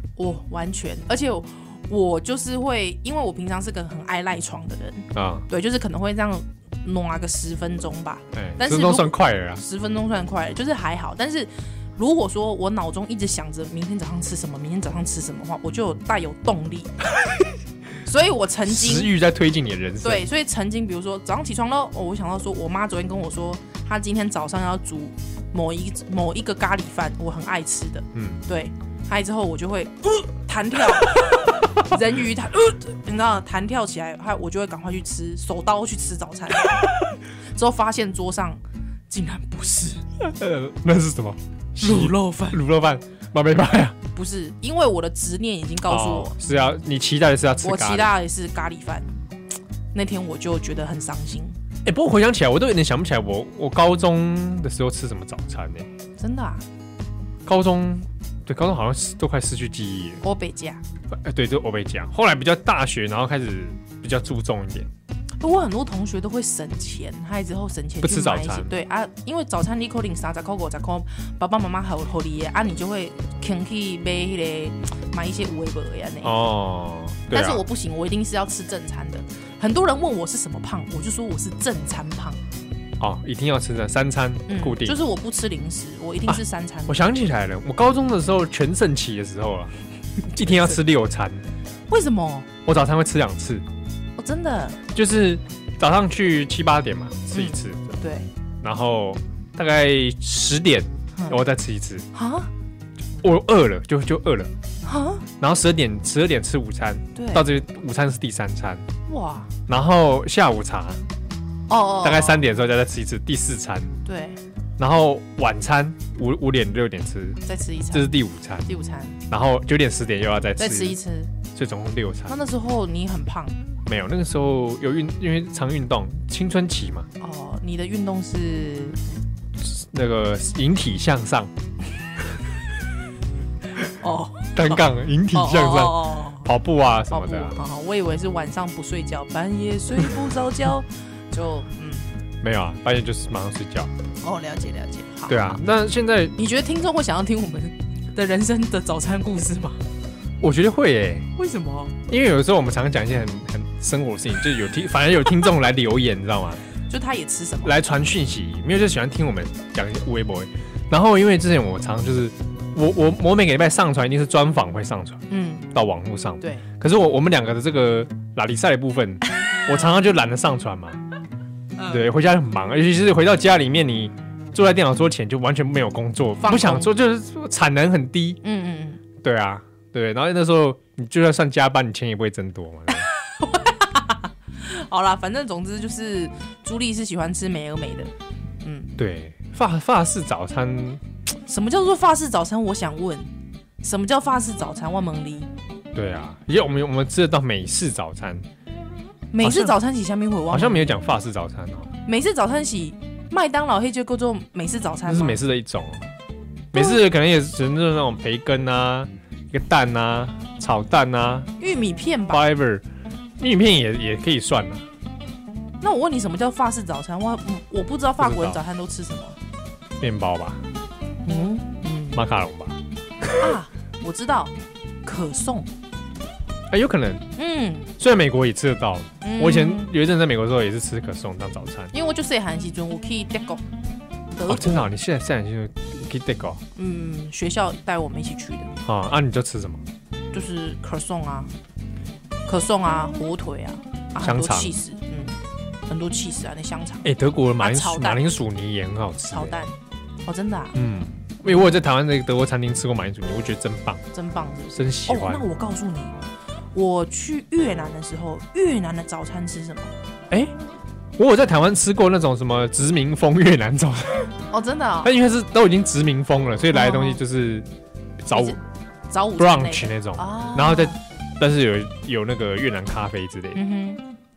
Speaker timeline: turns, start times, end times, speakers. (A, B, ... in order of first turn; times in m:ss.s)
0:00.2-0:17.0 A
0:05.1-0:05.5 B
0:08.3-0:09.6 B
0:18.0-0:19.1 A
0:18.6-0:20.3 B
0:20.0-0:40.0 A
0:28.1-0:28.4 B
0:40.2-0:43.9 B
0:41.8-0:42.6 A
0:44.1-0:46.4 A
0:45.9-0:48.1 B
0:47.6-0:49.2 A
0:49.9-0:51.6 A
0:51.8-0:55.9 B
0:56.2-0:56.6 A
0:57.4-1:00.2 B
1:00.2-1:00.8 A
1:01.1-1:04.9 B
1:05.4-1:16.3 A
1:08.0-1:08.7 B
1:16.2-1:17.6 B
1:17.3-1:22.4 A
1:23.0-1:25.0 B
1:24.5-1:27.0 A
1:26.3-1:29.7 B
1:30.3-1:31.4 B
1:30.4-1:30.8 A
1:31.9-1:32.5 A
1:32.6-1:33.6 B
1:34.2-1:34.8 A
1:34.9-1:37.9 B
1:37.3-1:38.3 A
1:38.6-1:42.0 B
1:42.1-1:42.5 A
1:43.2-1:44.5 B
1:44.8-1:45.2 A
1:45.4-1:48.8 B
1:47.1-1:47.4 A
1:49.1-1:49.5 A
1:49.7-1:51.0 B
1:51.7-1:52.4 A
1:52.0-1:53.9 B
1:54.0-1:54.4 A
1:54.8-1:57.4 B
1:57.4-1:59.2 A
1:57.9-1:58.7 B
1:59.3-2:01.0 B
2:00.6-2:01.3 A
2:01.5-2:02.4 B
2:02.3-2:03.6 A
2:03.8-2:07.1 B
2:07.2-2:09.0 A
2:09.6-2:11.5 B
2:13.8-2:16.5 A
2:14.5-2:17.6 B
2:17.1-2:22.1 A
2:22.4-2:23.9 B
2:24.2-2:25.6 A
2:25.3-2:26.3 B
2:26.4-2:29.8 A
2:30.4-2:31.3 B
2:31.4-2:31.9 A
2:32.1-2:36.6 B
2:36.9-2:37.8 A
2:37.6-2:45.2 B
2:45.3-2:45.7 A
2:45.7-2:51.0 B
2:46.4-2:46.6 A
2:51.8-2:52.1 A
2:51.9-2:58.4 B
2:56.4-2:56.9 A
2:58.4-2:59.0 A
2:59.2-3:03.1 B
3:02.9-3:08.1 A
3:08.6-3:08.9 A
3:09.0-3:11.0 B
3:11.4-3:13.3 A
3:13.8-3:15.5 A
3:15.9-3:18.4 B
3:19.3-3:21.0 A
3:19.4-3:19.7 B
3:20.5-3:21.9 B
3:22.0-3:25.4 A
3:25.0-3:26.0 B
3:26.7-3:31.5 B
3:26.7-3:27.0 A
3:31.6-3:32.4 A
3:32.3-3:32.8 B
3:33.4-3:34.8 B
3:35.8-3:39.4 A
3:38.2-3:38.6 B
3:40.0-3:40.6 B
3:41.2-3:42.2 A
3:42.1-3:43.5 B
3:43.4-3:44.5 A
3:45.0-3:45.7 A
3:46.7-3:47.2 B
3:47.4-3:47.9 A
3:48.0-3:51.9 B
3:49.2-3:49.9 A
3:51.9-3:53.6 A
3:54.3-3:54.9 A
3:54.5-3:56.6 B
3:56.7-3:58.7 A
3:58.8-3:59.8 B
4:00.3-4:01.5 A
4:02.4-4:08.3 A
4:04.2-4:04.8 B
4:07.0-4:09.6 B
4:09.3-4:09.7 A
4:10.2-4:10.7 A
4:10.7-4:14.0 B
4:11.4-4:11.7 A
4:14.1-4:16.2 A
4:14.8-4:15.4 B
4:16.7-4:19.9 A
4:21.2-4:24.3 B
4:24.5-4:25.1 A
4:25.0-4:27.7 B
4:26.7-4:27.2 A
4:28.2-4:28.6 B
4:28.3-4:31.0 A
4:29.4-4:33.6 B
4:33.5-4:34.0 A